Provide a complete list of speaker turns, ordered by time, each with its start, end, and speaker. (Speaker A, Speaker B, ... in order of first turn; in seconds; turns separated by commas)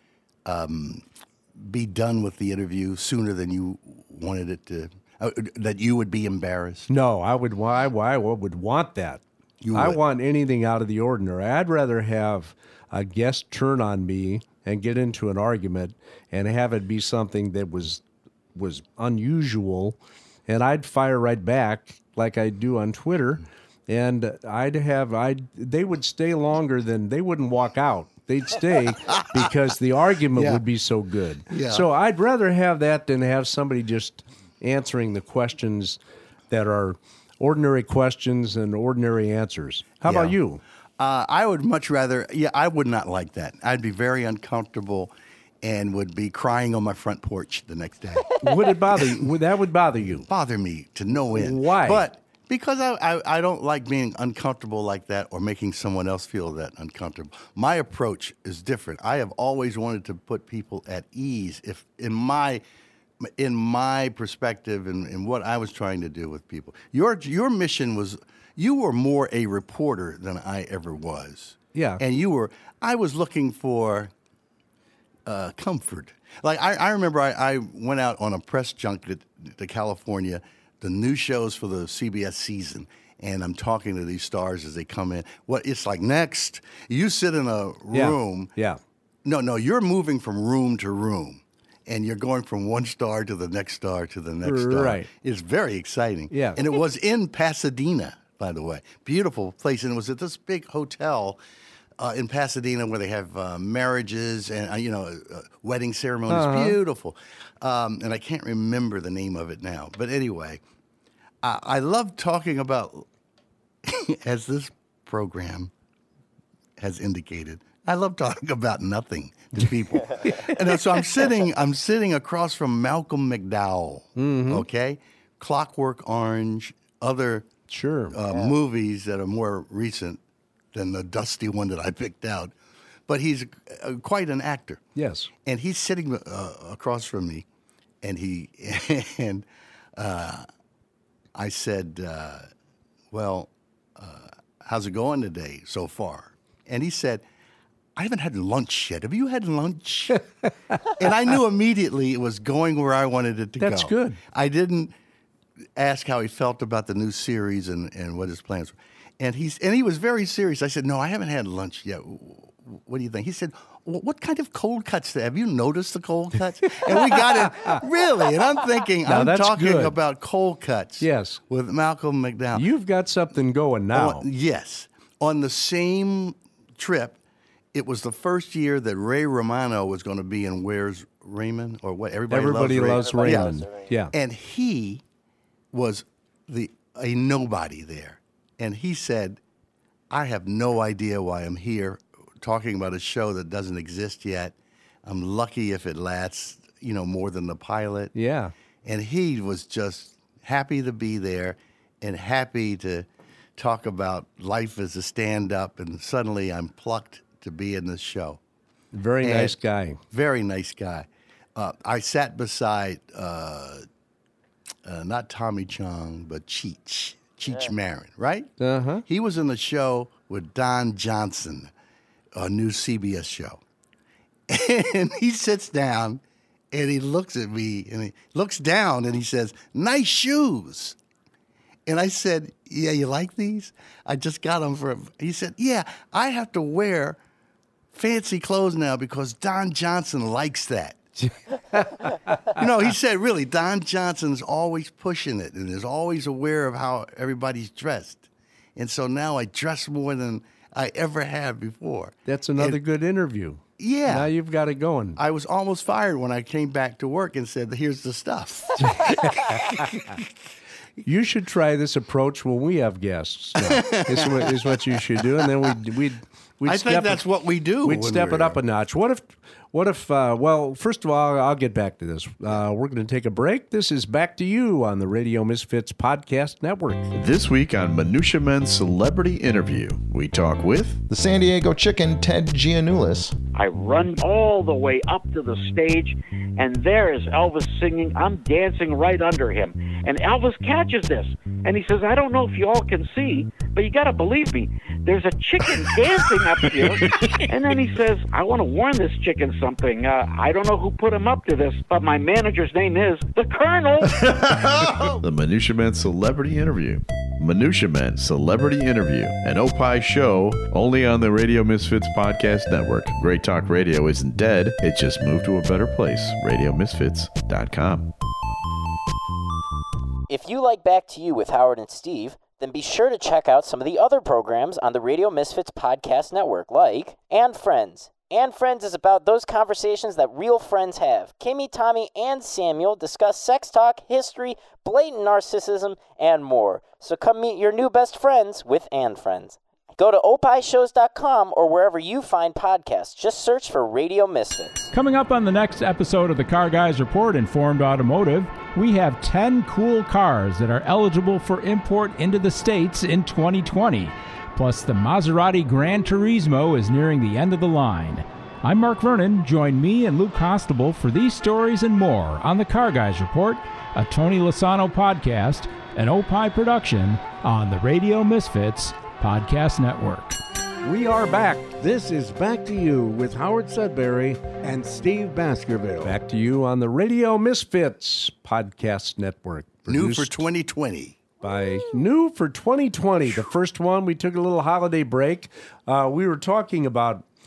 Speaker A: 0.4-6.9, Speaker B: 6.9-9.2, Speaker A: 9.6-10.0, Speaker B: 9.7-18.0, Speaker B: 18.5-36.0, Speaker A: 29.1-29.5, Speaker A: 30.3-30.6, Speaker A: 31.5-31.9, Speaker B: 36.5-40.6, Speaker A: 40.0-40.4, Speaker A: 41.0-48.4, Speaker B: 48.4-50.3, Speaker A: 48.9-49.3, Speaker A: 50.1-62.6, Speaker B: 51.3-52.0, Speaker A: 63.2-74.1, Speaker B: 71.7-72.0, Speaker A: 75.2-88.5, Speaker B: 87.9-88.8, Speaker A: 89.2-101.4, Speaker B: 94.4-95.1, Speaker B: 96.3-96.6, Speaker A: 102.0-110.6, Speaker B: 106.3-106.8, Speaker A: 111.4-113.1, Speaker A: 113.8-115.7, Speaker A: 116.8-127.5, Speaker B: 120.2-120.5, Speaker B: 124.2-124.6, Speaker B: 127.7-128.2, Speaker A: 128.1-130.2, Speaker A: 130.7-132.5, Speaker A: 133.1-134.8, Speaker B: 134.9-135.3, Speaker A: 135.4-137.4, Speaker A: 138.0-140.4, Speaker A: 141.3-142.5, Speaker A: 143.1-147.2, Speaker A: 147.9-150.2, Speaker A: 151.0-154.9, Speaker B: 153.6-154.2, Speaker A: 155.8-172.7, Speaker B: 166.9-167.8, Speaker B: 169.1-169.9, Speaker B: 171.0-171.4, Speaker B: 172.5-174.2, Speaker A: 173.9-177.2, Speaker A: 177.7-185.0, Speaker B: 182.3-184.1, Speaker A: 185.7-189.4, Speaker A: 190.1-198.1, Speaker B: 198.1-198.5, Speaker A: 198.8-208.4, Speaker B: 208.9-210.0, Speaker A: 209.2-209.6, Speaker A: 210.1-213.8, Speaker A: 214.8-218.5, Speaker B: 218.6-219.0, Speaker A: 219.1-221.7, Speaker A: 222.3-223.6, Speaker A: 224.5-231.0, Speaker A: 231.8-237.2, Speaker A: 237.9-241.0, Speaker B: 241.7-242.2, Speaker A: 242.6-252.8, Speaker B: 252.3-255.2, Speaker A: 253.8-254.3, Speaker A: 255.2-260.2, Speaker B: 258.8-260.0, Speaker B: 261.0-267.2, Speaker A: 263.6-265.7, Speaker A: 266.6-268.6, Speaker B: 267.8-277.1, Speaker C: 277.1-281.0, Speaker D: 281.1-283.3, Speaker E: 283.5-304.3, Speaker C: 305.1-318.1, Speaker F: 320.3-344.9, Speaker G: 344.9-370.4, Speaker H: 370.8-376.2, Speaker B: 376.0-380.4, Speaker A: 379.9-381.2, Speaker B: 381.4-387.2